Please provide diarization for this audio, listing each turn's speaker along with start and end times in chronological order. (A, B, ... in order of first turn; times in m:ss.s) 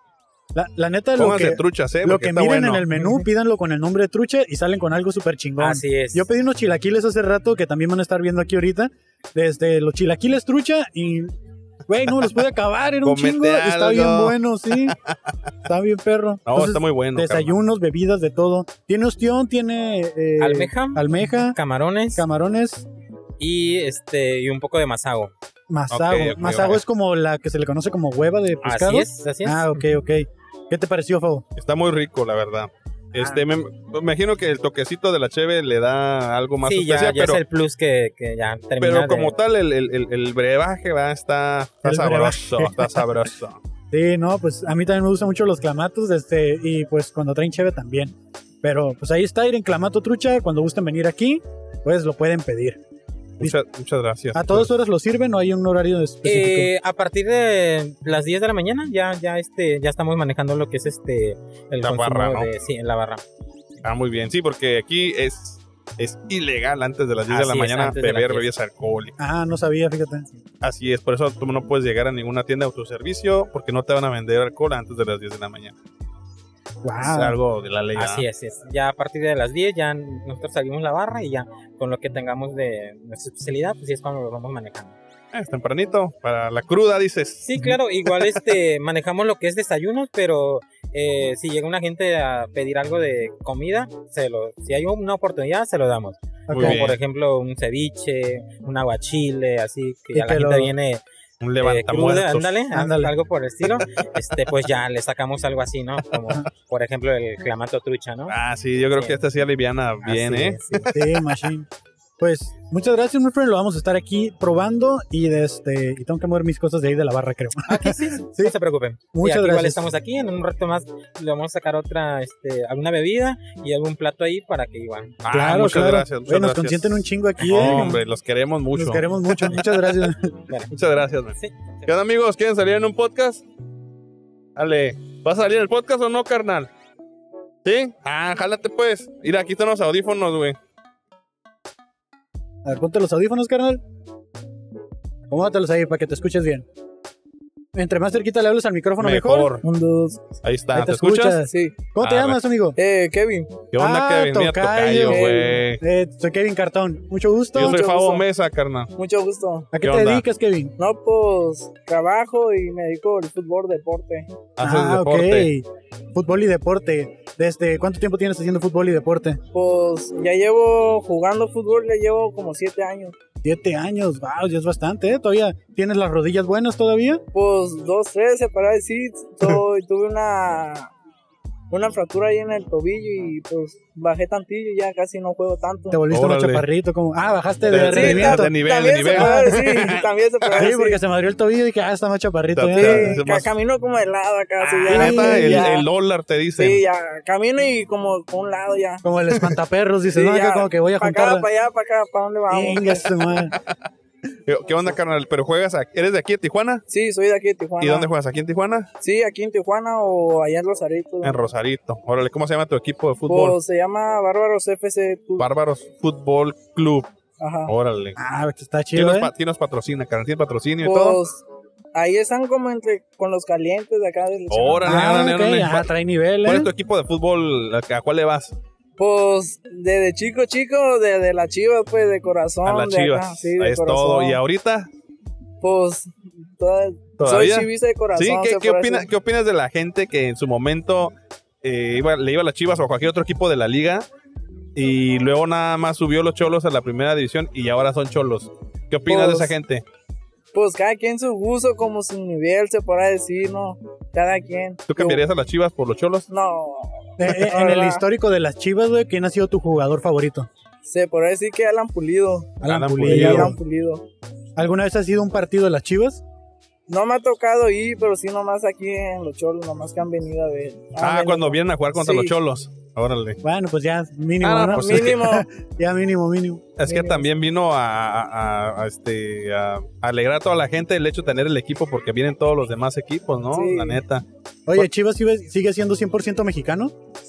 0:00.5-0:11.3 A
0:01.2-0:02.8 B
0:03.0-0:03.2 C
0:05.6-0:06.3 C
0:11.9-0:15.0 A
0:13.0-0:15.2 B
0:15.6-0:21.6 A
0:16.5-0:17.6 B
0:20.4-0:22.2 C
0:22.1-0:22.9 A
0:23.4-0:25.3 C
0:25.7-0:31.4 A
0:25.9-0:26.8 B
0:28.6-0:29.8 C
0:31.6-0:37.4 B
0:33.1-0:33.4 A
0:36.6-0:39.3 C
0:38.8-0:43.6 B
0:41.8-0:43.2 A
0:43.9-0:52.8 A
0:53.4-0:54.7 B
0:54.3-0:56.7 A
0:56.2-1:03.2 C
1:01.8-1:02.5 B
1:03.8-1:09.2 B
1:07.3-1:08.5 C
1:09.2-1:10.3 A
1:10.6-1:15.8 B
1:16.8-1:17.4 A
1:17.0-1:18.2 B
1:17.9-1:25.0 C
1:25.3-1:27.5 B
1:27.4-1:41.0 C
1:36.5-1:36.9 A
1:36.5-1:37.0 B
1:40.1-1:40.7 A
1:41.4-1:42.6 B
1:41.6-1:48.3 C
1:42.7-1:43.1 A
1:48.3-1:51.0 B
1:50.0-1:50.9 C
1:50.9-1:51.7 A
1:52.2-1:58.5 A
1:57.6-2:05.1 C
1:59.1-1:59.8 A
2:05.2-2:10.1 B
2:05.3-2:08.0 A
2:07.4-2:07.9 C
2:08.7-2:10.3 A
2:10.7-2:13.4 B
2:14.6-2:16.7 B
2:17.6-2:20.6 B
2:22.6-2:23.8 A
2:25.3-2:26.6 A
2:27.7-2:29.5 A
2:29.0-2:29.6 B
2:29.6-2:30.2 D
2:30.4-2:31.4 B
2:30.7-2:32.8 A
2:31.4-2:31.8 D
2:32.0-2:32.4 B
2:32.8-2:33.6 D
2:33.7-2:35.8 B
2:33.8-2:37.8 A
2:35.0-2:35.6 D
2:37.5-2:38.9 B
2:37.6-2:38.2 D
2:39.0-2:39.7 D
2:39.7-2:40.7 A
2:39.8-2:40.2 B
2:40.8-2:44.3 D
2:44.6-2:45.5 B
2:44.6-2:49.4 A
2:49.5-2:53.2 D
2:53.4-2:57.2 A
2:57.3-3:00.9 D
3:01.7-3:06.0 D
3:05.9-3:08.6 A
3:06.1-3:06.6 B
3:07.7-3:10.7 B
3:07.7-3:11.0 D
3:09.1-3:09.6 A
3:10.6-3:13.2 A
3:12.5-3:13.5 B
3:12.7-3:15.8 D
3:14.6-3:16.8 B
3:14.9-3:15.7 A
3:16.6-3:19.0 D
3:19.0-3:21.5 A
3:20.1-3:23.0 D
3:22.5-3:23.5 A
3:24.5-3:26.8 B
3:26.9-3:28.1 D
3:27.8-3:28.9 B
3:29.0-3:31.4 D
3:31.2-3:33.6 B
3:33.3-3:35.5 D
3:35.4-3:37.1 B
3:37.4-3:37.7 D
3:37.6-3:38.2 B
3:38.2-3:39.3 A
3:38.9-3:41.2 B
3:40.8-3:41.4 D
3:41.9-3:45.1 D
3:44.5-3:45.9 B
3:44.8-3:46.7 A
3:46.4-3:48.5 B
3:49.0-3:54.4 D
3:52.6-3:54.9 B
3:55.6-3:59.0 D
3:57.2-4:04.1 B
4:04.7-4:09.8 B
4:09.1-4:09.5 D
4:10.5-4:15.2 D
4:14.9-4:16.3 B
4:16.3-4:18.0 D
4:17.2-4:20.5 A
4:20.8-4:24.0 D
4:22.6-4:23.6 A
4:22.6-4:23.5 B
4:24.6-4:26.2 A
4:26.9-4:32.3 D
4:31.0-4:33.4 B
4:33.4-4:36.7 A
4:34.4-4:35.4 B
4:34.7-4:35.4 D
4:36.8-4:44.9 B
4:36.8-4:37.2 D
4:43.5-4:44.0 D
4:44.7-4:46.9 A